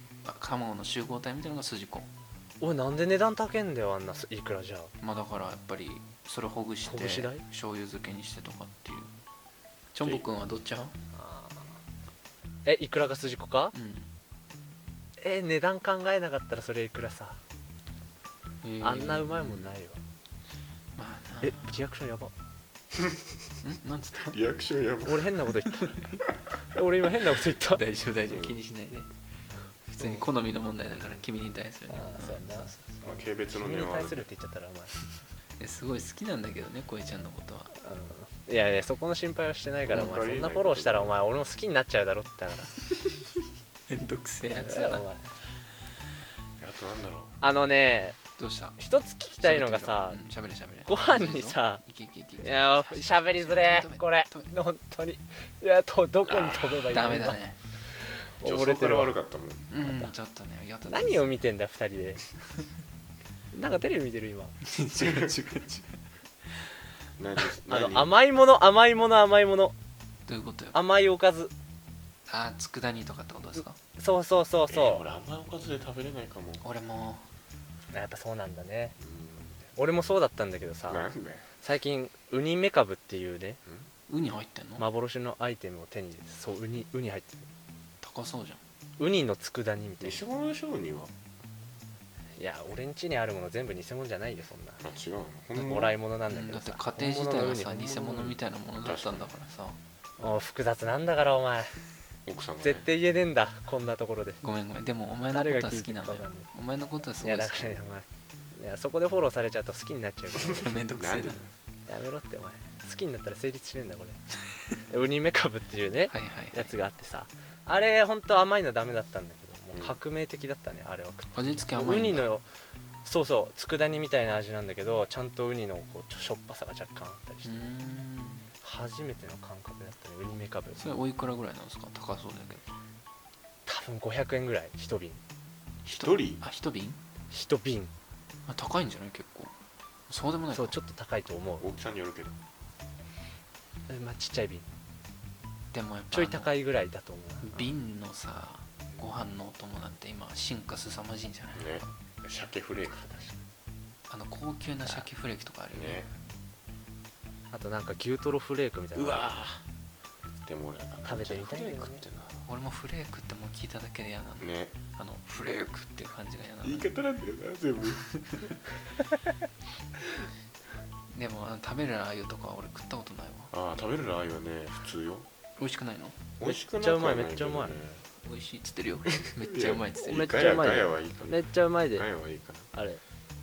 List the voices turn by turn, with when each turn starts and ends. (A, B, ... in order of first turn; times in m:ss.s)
0:00.2-0:02.1 A
0:02.6-0:04.9 B
0:05.0-0:09.1 A
0:06.9-0:07.4 B
0:09.9-0:11.0 A
0:11.1-0:11.7 B
0:12.6-0:13.7 B
0:13.7-0:14.1 A
0:15.2-0:17.4 B
0:18.6-0:19.7 A
0:18.8-0:20.0 B
0:21.0-0:21.8 A
0:21.4-0:22.3 B
0:22.9-0:23.5 C
0:23.6-0:24.4 A
0:24.3-0:25.4 C
0:25.0-0:25.9 B
0:25.7-0:26.2 A
0:26.7-0:27.8 B
0:27.7-0:29.1 A
0:28.3-0:28.5 C
0:29.9-0:32.9 A
0:31.9-0:34.9 B
0:33.0-0:34.2 C
0:35.6-0:37.7 A
0:37.8-0:42.7 B
0:39.8-0:41.2 C
0:43.9-0:45.0 A
0:44.5-0:45.2 B
0:46.6-0:47.3 C
0:47.4-0:48.2 B
0:48.4-0:48.8 A
0:48.8-0:50.2 B
0:49.4-0:54.5 A
0:50.9-0:51.8 B
0:52.4-0:57.4 B
0:56.3-0:56.9 C
0:56.9-0:57.6 A
0:58.4-0:59.1 B
0:58.4-0:59.7 C
0:59.7-1:01.3 A
0:59.8-1:00.1 B
1:00.9-1:02.2 B
1:03.5-1:04.6 B
1:04.6-1:06.0 A
1:05.0-1:05.3 C
1:07.2-1:08.1 C
1:07.7-1:09.7 B
1:10.3-1:10.8 A
1:10.7-1:11.5 B
1:12.3-1:13.8 A
1:14.0-1:15.0 B
1:14.7-1:16.6 C
1:16.6-1:17.2 A
1:17.9-1:19.0 B
1:19.0-1:19.7 C
1:19.8-1:21.0 B
1:20.9-1:21.5 C
1:21.6-1:23.6 B
1:24.1-1:24.8 A
1:24.8-1:27.4 B
1:28.0-1:28.6 A
1:29.0-1:30.2 B
1:30.0-1:31.1 C
1:32.4-1:34.8 B
1:34.8-1:35.9 C
1:35.6-1:38.3 B
1:36.3-1:39.8 A
1:38.8-1:39.3 C
1:40.2-1:41.7 B
1:42.2-1:42.9 C
1:42.6-1:44.4 B
1:44.4-1:47.7 A
1:45.3-1:46.5 B
1:47.2-1:50.7 B
1:50.4-1:51.4 A
1:50.9-1:51.4 C
1:51.9-1:54.2 B
1:54.9-2:02.4 B
1:56.1-1:56.7 A
2:01.3-2:02.3 A
2:03.0-2:07.6 B
2:07.4-2:08.4 A
2:08.6-2:11.0 B
2:10.8-2:12.6 A
2:13.6-2:15.2 B
2:15.9-2:16.4 C
2:15.9-2:17.0 A
2:17.3-2:17.9 B
2:18.5-2:19.5 A
2:20.1-2:20.8 A
2:20.5-2:21.7 B
2:21.6-2:22.4 C
2:23.9-2:24.6 B
2:25.7-2:26.5 A
2:26.1-2:27.7 B
2:27.4-2:31.8 A
2:31.5-2:33.2 C
2:34.1-2:36.1 A
2:35.7-2:36.1 C
2:37.5-2:39.3 B
2:38.9-2:39.6 C
2:40.4-2:42.4 C
2:41.0-2:42.0 B
2:42.5-2:46.9 A
2:44.4-2:44.7 C
2:46.6-2:48.5 C
2:47.9-2:48.5 A
2:51.1-2:53.5 A
2:53.5-2:55.3 C
2:55.6-2:56.2 A
2:56.4-2:58.0 C
2:56.4-2:57.8 B
2:58.2-3:00.4 A
2:59.2-3:02.7 C
3:00.0-3:02.0 B
3:02.7-3:03.0 B